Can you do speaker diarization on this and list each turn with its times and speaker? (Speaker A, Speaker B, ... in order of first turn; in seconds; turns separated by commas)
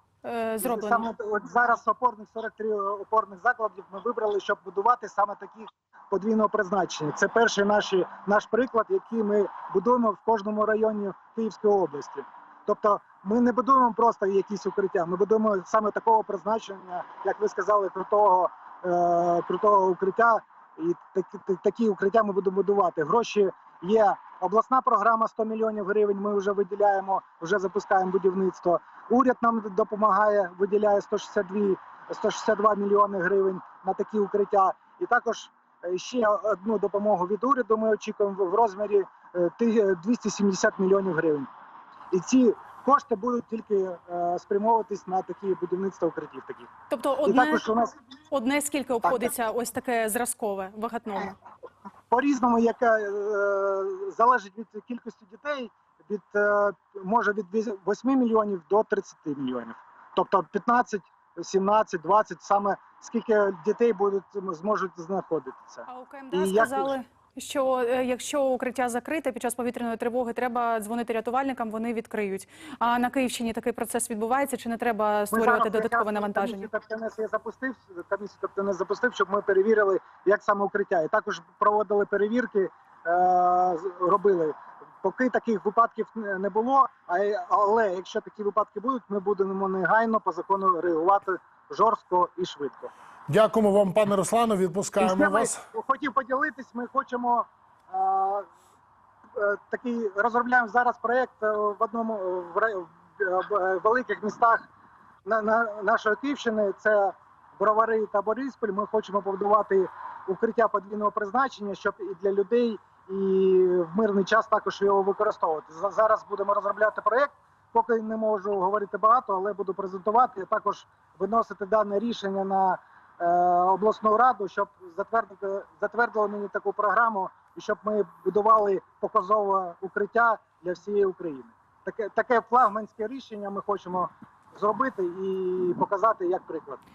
Speaker A: 0.2-1.1, Speaker B: 0.6-41.5, Speaker B: 42.1-46.7, Speaker A: 46.9-47.6, Speaker B: 47.2-47.9, Speaker A: 48.3-51.3, Speaker B: 49.0-49.3, Speaker B: 52.1-66.9, Speaker A: 65.8-76.7, Speaker B: 75.3-92.9, Speaker C: 93.3-95.6, Speaker B: 95.0-98.5, Speaker B: 99.3-104.7, Speaker B: 105.2-136.8